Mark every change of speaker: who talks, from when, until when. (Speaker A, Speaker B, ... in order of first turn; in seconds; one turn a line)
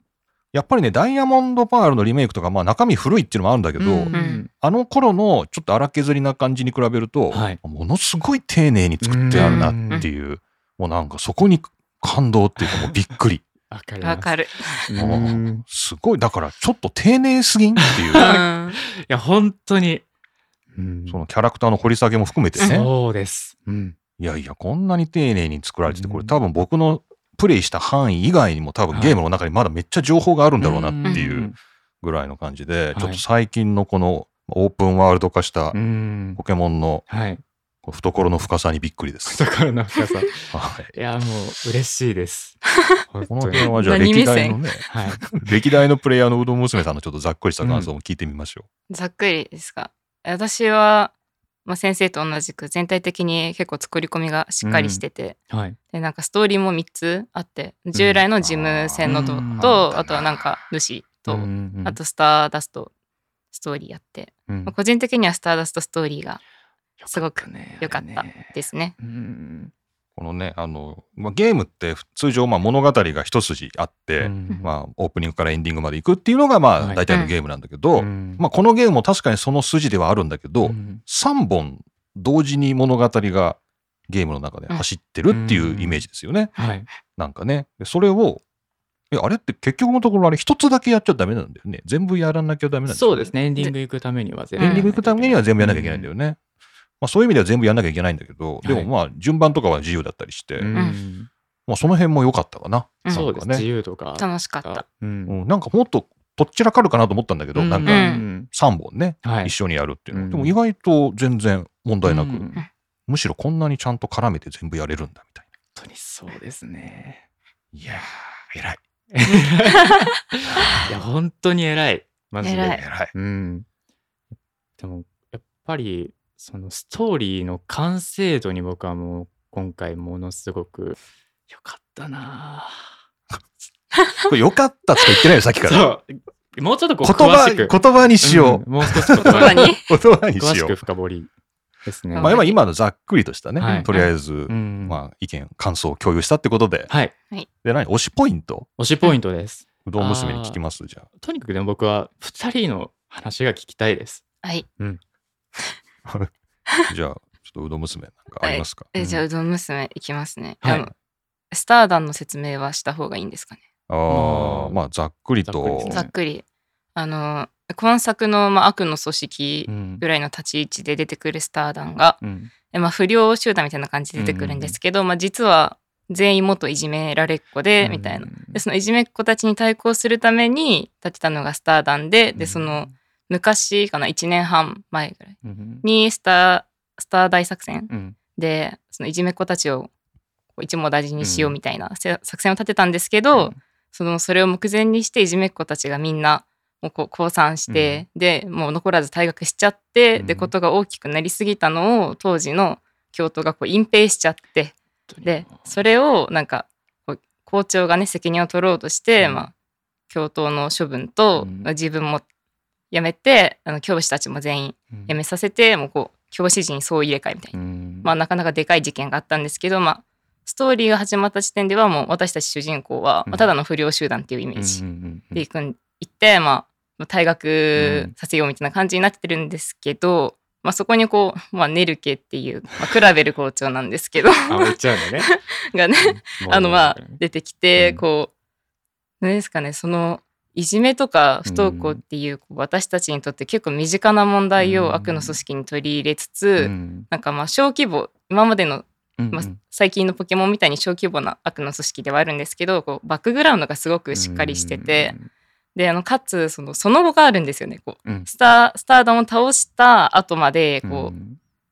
Speaker A: 0.5-13.4
Speaker B: 3.8-4.5
Speaker C: 4.1-4.4
Speaker B: 7.3-7.6
Speaker B: 9.0-10.1
Speaker C: 9.3-10.0
Speaker B: 12.6-12.9
Speaker B: 13.7-15.6
Speaker C: 14.0-14.9
Speaker A: 14.9-18.2
Speaker B: 17.8-20.0
Speaker C: 18.1-18.8
Speaker B: 20.7-21.2
Speaker A: 21.1-22.9
Speaker B: 22.6-23.9
Speaker C: 22.6-22.8
Speaker A: 24.2-35.8
Speaker B: 25.9-26.3
Speaker B: 28.9-29.2
Speaker B: 30.6-31.6
Speaker B: 32.9-33.2
Speaker B: 35.7-36.4
Speaker A: 36.4-37.1
Speaker B: 37.1-37.4
Speaker A: 37.8-39.4
Speaker B: 39.2-43.7
Speaker A: 40.5-40.9
Speaker A: 43.3-48.7
Speaker C: 43.6-44.6
Speaker B: 44.9-45.2
Speaker B: 47.6-47.9
Speaker C: 48.9-51.1
Speaker C: 51.6-55.4
Speaker B: 54.6-55.8
Speaker C: 55.9-62.9
Speaker B: 57.9-58.2
Speaker A: 58.4-60.5
Speaker B: 59.0-59.8
Speaker B: 61.3-62.0
Speaker C: 63.5-66.4
Speaker B: 64.5-64.7
Speaker B: 67.0-69.7
Speaker C: 67.1-68.9
Speaker A: 70.2-86.5
Speaker B: 74.2-74.7
Speaker B: 77.9-78.4
Speaker B: 80.6-81.0
Speaker B: 85.3-86.0
Speaker B: 86.5-86.9
Speaker A: 87.2-88.4
Speaker A: 89.1-93.3
Speaker B: 92.9-96.1
Speaker C: 94.6-94.8
Speaker A: 94.6-96.4
Speaker A: 97.0-100.7
Speaker B: 98.6-98.9
Speaker B: 100.6-101.3
Speaker A: 101.7-103.7
Speaker B: 103.1-105.4
Speaker C: 104.2-104.8
Speaker A: 105.3-112.5
Speaker B: 107.5-108.5
Speaker C: 107.8-108.2
Speaker B: 109.2-109.5
Speaker B: 110.1-110.5
Speaker B: 112.0-112.7
Speaker A: 113.1-115.5
Speaker B: 115.8-117.2
Speaker A: 117.7-118.8
Speaker B: 119.1-123.7
Speaker A: 120.5-120.9
Speaker C: 122.4-122.8
Speaker A: 122.6-123.1
Speaker B: 124.8-131.0
Speaker B: 131.5-132.9
Speaker A: 134.2-135.9
Speaker B: 135.6-139.7
Speaker A: 137.0-140.8
Speaker C: 139.2-139.8
Speaker B: 140.3-141.3
Speaker B: 141.8-142.3
Speaker C: 142.2-142.6
Speaker A: 142.2-146.9
Speaker B: 143.6-143.9
Speaker C: 143.7-144.1
Speaker B: 144.5-145.0
Speaker B: 146.9-147.1
Speaker A: 147.6-148.7
Speaker B: 148.8-150.6
Speaker A: 149.8-151.1
Speaker B: 151.2-154.2
Speaker A: 156.1-156.3
Speaker A: 156.9-158.9
Speaker C: 158.4-160.9
Speaker B: 159.0-159.2
Speaker B: 160.6-160.9
Speaker C: 161.5-163.6
Speaker A: 163.9-166.0
Speaker B: 164.1-164.8
Speaker B: 165.4-166.1
Speaker C: 165.8-189.9
Speaker B: 169.7-170.0
Speaker B: 172.2-172.5
Speaker B: 174.2-174.8
Speaker B: 177.8-178.6
Speaker B: 182.3-182.9
Speaker B: 185.4-185.8
Speaker B: 187.9-188.2
Speaker C: 190.6-209.5
Speaker B: 191.2-191.5
Speaker B: 197.7-198.0
Speaker B: 200.1-200.5
Speaker B: 205.1-205.8
Speaker B: 209.2-209.5
Speaker C: 210.1-212.2
Speaker B: 211.3-211.7
Speaker C: 212.9-238.3
Speaker B: 217.5-218.1
Speaker B: 223.3-223.5
Speaker B: 224.5-225.4
Speaker B: 227.8-228.1
Speaker B: 234.5-235.3
Speaker B: 236.0-237.2
Speaker B: 237.8-238.0
Speaker C: 239.2-255.1
Speaker B: 241.4-242.0
Speaker B: 244.6-245.4
Speaker B: 246.6-247.1
Speaker B: 249.2-249.6
Speaker B: 254.1-255.3
Speaker C: 255.7-261.1
Speaker B: 260.8-261.4